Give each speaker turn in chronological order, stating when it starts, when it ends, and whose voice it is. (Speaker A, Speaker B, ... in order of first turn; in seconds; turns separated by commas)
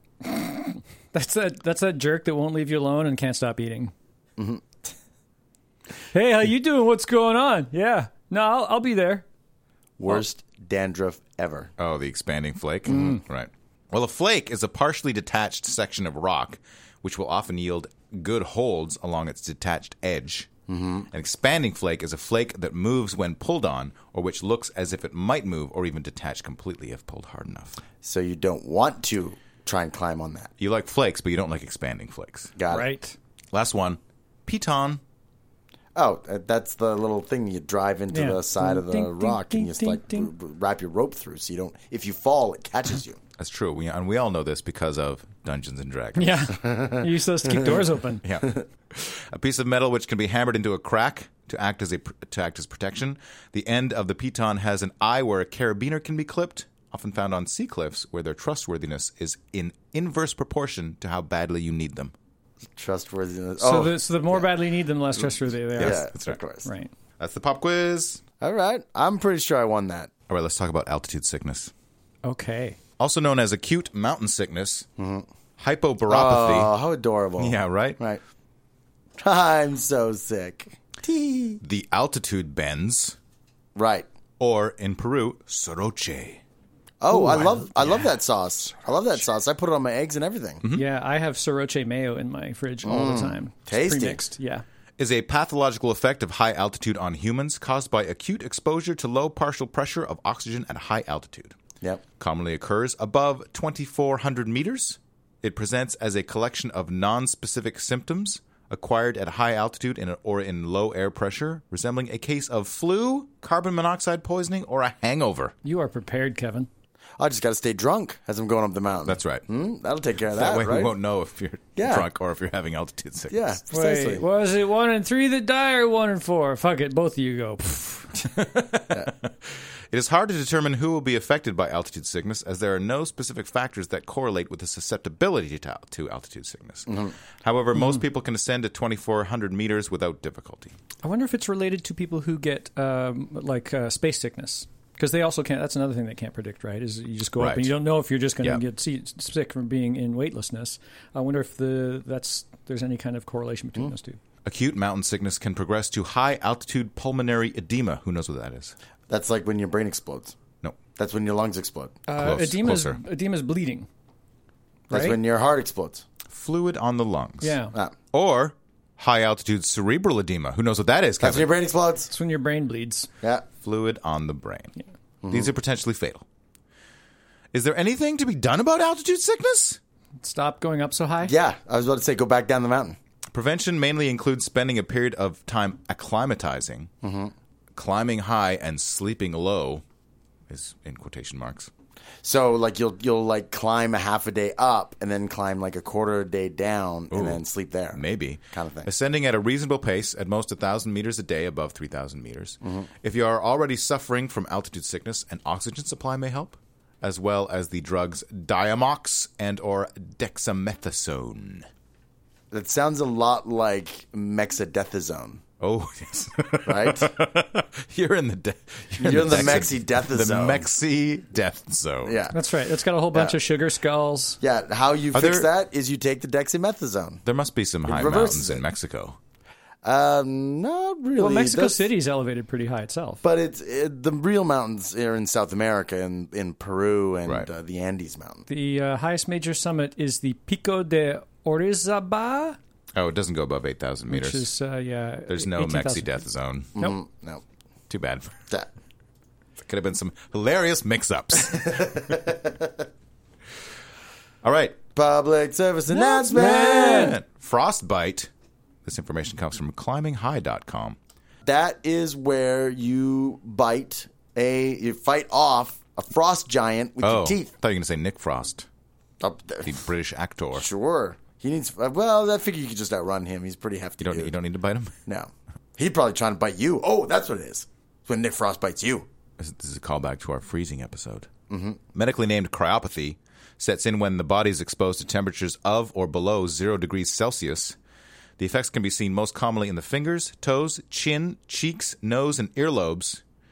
Speaker A: 0.2-3.9, Speaker B: 4.4-4.8, Speaker A: 6.1-9.2, Speaker B: 10.0-11.7, Speaker C: 11.8-20.5, Speaker A: 12.9-13.2, Speaker B: 20.7-21.1, Speaker C: 21.1-27.8, Speaker B: 28.0-30.5, Speaker C: 30.6-32.5, Speaker B: 32.6-32.9, Speaker A: 32.7-33.2, Speaker C: 33.5-35.0, Speaker B: 36.0-43.2, Speaker A: 38.1-40.3, Speaker C: 43.4-46.5, Speaker A: 46.2-48.2, Speaker B: 46.6-47.1, Speaker C: 48.2-62.1, Speaker B: 62.8-64.5, Speaker A: 63.6-66.1, Speaker C: 65.8-66.4, Speaker B: 65.8-66.7, Speaker A: 66.7-66.9, Speaker C: 67.2-68.2, Speaker B: 68.4-70.1, Speaker C: 70.3-71.7, Speaker A: 72.2-72.8, Speaker C: 73.0-74.9, Speaker B: 75.0-75.2, Speaker C: 75.6-76.7, Speaker B: 76.1-78.2, Speaker C: 77.4-78.0, Speaker B: 79.2-81.6, Speaker C: 81.6-83.2, Speaker B: 83.8-84.1, Speaker C: 84.4-86.4, Speaker B: 87.0-90.6, Speaker A: 87.1-88.1, Speaker A: 90.7-94.6, Speaker B: 92.8-94.2, Speaker C: 95.0-101.6, Speaker C: 102.2-115.5, Speaker A: 115.6-116.7, Speaker B: 117.2-120.9, Speaker C: 119.1-119.5, Speaker C: 120.3-123.5, Speaker B: 121.8-122.1, Speaker B: 123.3-124.2, Speaker A: 123.7-128.1, Speaker C: 128.2-140.8, Speaker B: 136.9-137.2, Speaker A: 137.8-138.0, Speaker A: 141.0-154.2, Speaker C: 147.4-147.7, Speaker C: 154.4-158.8, Speaker B: 159.1-160.3, Speaker B: 161.0-162.0, Speaker A: 162.1-163.9, Speaker C: 162.2-163.0, Speaker B: 164.9-166.1, Speaker A: 164.9-165.2, Speaker C: 166.3-167.6, Speaker A: 167.4-167.7, Speaker C: 168.1-171.5, Speaker B: 171.2-172.1, Speaker A: 172.1-173.1, Speaker B: 173.2-173.5, Speaker C: 173.6-174.8, Speaker B: 175.2-175.5, Speaker C: 175.3-176.2, Speaker C: 177.5-179.8, Speaker A: 180.2-181.3, Speaker B: 181.2-183.0, Speaker C: 183.3-186.9, Speaker B: 187.0-187.3, Speaker C: 187.8-189.8, Speaker C: 190.5-191.7, Speaker B: 192.2-198.9, Speaker C: 197.1-197.4, Speaker C: 197.9-211.7, Speaker B: 202.6-202.9, Speaker B: 212.5-215.4, Speaker C: 215.6-222.2, Speaker B: 216.7-217.1, Speaker B: 219.0-220.7, Speaker B: 222.1-222.4, Speaker A: 222.3-224.4, Speaker B: 224.4-227.2, Speaker C: 225.1-225.5, Speaker C: 227.2-229.2, Speaker B: 227.9-228.6, Speaker B: 229.8-231.9, Speaker A: 231.2-233.2, Speaker B: 233.2-238.4, Speaker A: 238.5-242.6, Speaker C: 242.9-244.5, Speaker A: 244.1-246.2, Speaker C: 245.3-246.8, Speaker B: 246.8-247.4, Speaker C: 247.9-248.4, Speaker C: 249.6-252.2, Speaker B: 251.7-252.7, Speaker C: 254.4-254.8, Speaker B: 254.9-257.2, Speaker A: 255.9-257.2, Speaker C: 255.9-258.3, Speaker C: 258.9-261.0, Speaker B: 261.4-267.5, Speaker C: 267.0-268.7, Speaker B: 269.2-269.8, Speaker C: 269.6-270.7, Speaker B: 270.5-274.3, Speaker C: 274.0-274.9, Speaker B: 275.1-279.1, Speaker C: 279.4-281.3, Speaker B: 281.5-281.8, Speaker C: 281.9-287.8, Speaker C: 288.4-293.2